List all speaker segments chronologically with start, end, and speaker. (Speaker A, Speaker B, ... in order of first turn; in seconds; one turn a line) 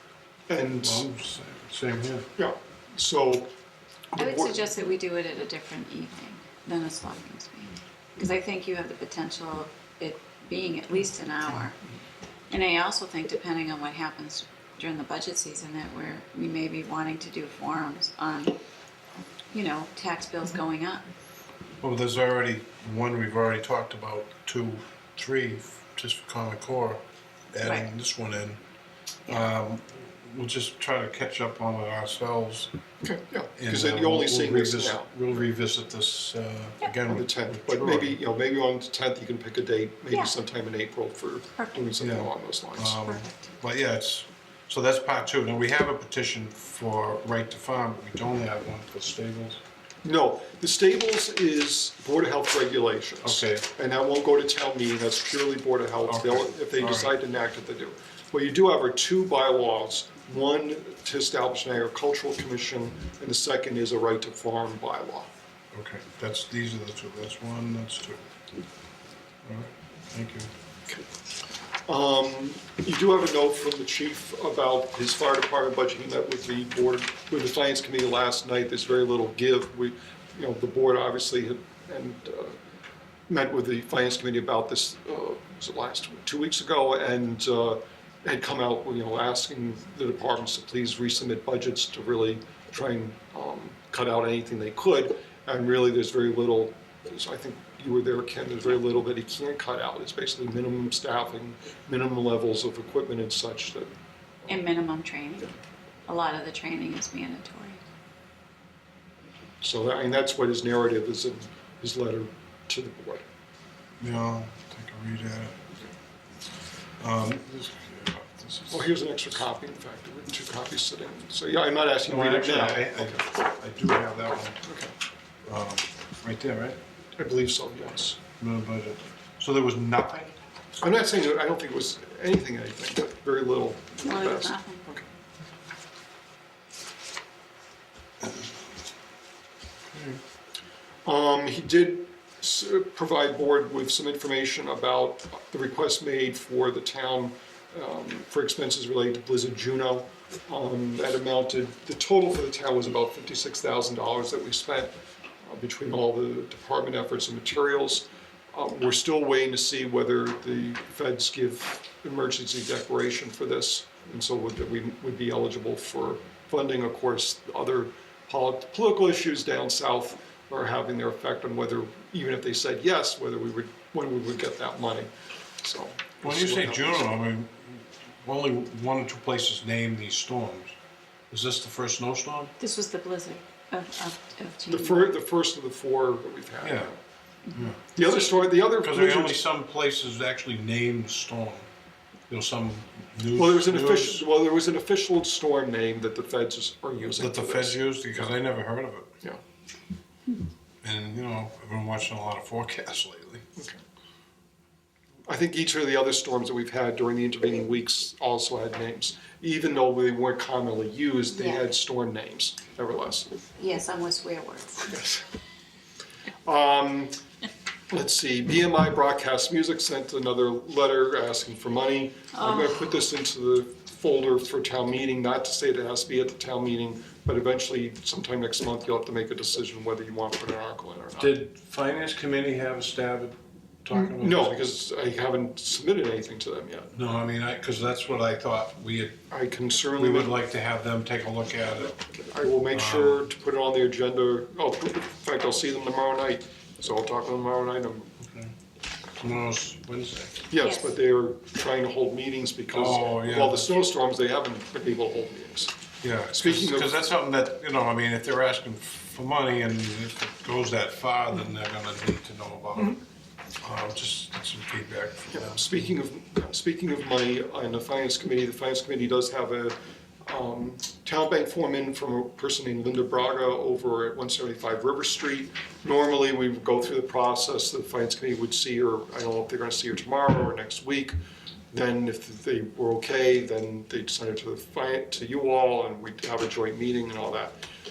Speaker A: 0.5-1.1
Speaker B: 0.8-2.3
Speaker A: 2.4-3.5
Speaker A: 4.1-4.6
Speaker C: 4.2-11.8
Speaker C: 12.5-18.6
Speaker C: 19.5-21.1
Speaker B: 21.8-27.0
Speaker B: 27.5-28.6
Speaker C: 27.6-27.9
Speaker B: 29.2-32.7
Speaker A: 33.0-35.1
Speaker B: 33.6-38.2
Speaker A: 37.0-43.0
Speaker C: 41.5-41.9
Speaker B: 42.0-49.6
Speaker C: 43.0-43.5
Speaker A: 50.0-65.3
Speaker B: 53.2-53.6
Speaker B: 56.0-57.1
Speaker B: 65.7-68.2
Speaker B: 69.4-70.5
Speaker A: 71.8-82.6
Speaker A: 83.3-103.9
Speaker C: 104.5-107.8
Speaker A: 109.6-113.2
Speaker B: 114.0-115.6
Speaker B: 117.0-118.9
Speaker A: 118.7-123.2
Speaker B: 122.1-124.6
Speaker A: 124.6-124.9
Speaker B: 125.5-126.8
Speaker A: 127.2-128.2
Speaker B: 128.4-130.3
Speaker A: 130.8-135.1
Speaker C: 134.0-134.9
Speaker B: 139.9-140.2
Speaker A: 141.0-177.1
Speaker B: 176.2-180.8
Speaker B: 181.3-182.5
Speaker C: 182.6-185.1
Speaker A: 184.7-187.0
Speaker B: 186.6-186.9
Speaker C: 187.5-188.4
Speaker B: 187.5-187.8
Speaker A: 187.9-189.4
Speaker B: 188.7-191.7
Speaker B: 192.3-194.2
Speaker A: 193.3-198.3
Speaker B: 197.0-199.2
Speaker B: 200.8-203.5
Speaker A: 205.3-213.3
Speaker C: 211.3-211.7
Speaker C: 213.6-214.9
Speaker A: 214.8-215.2
Speaker A: 216.4-217.2
Speaker A: 217.9-231.4
Speaker C: 222.3-222.8
Speaker B: 231.2-234.7
Speaker A: 233.9-236.9
Speaker B: 236.9-239.2
Speaker A: 239.3-240.4
Speaker B: 239.9-242.0
Speaker A: 242.1-248.1
Speaker B: 242.7-243.3
Speaker B: 248.2-248.5
Speaker B: 249.2-250.4
Speaker A: 250.5-255.7
Speaker C: 250.6-250.9
Speaker B: 252.7-253.7
Speaker B: 256.0-263.0
Speaker A: 256.3-257.0
Speaker B: 263.6-265.6
Speaker A: 265.3-281.1
Speaker A: 281.7-287.6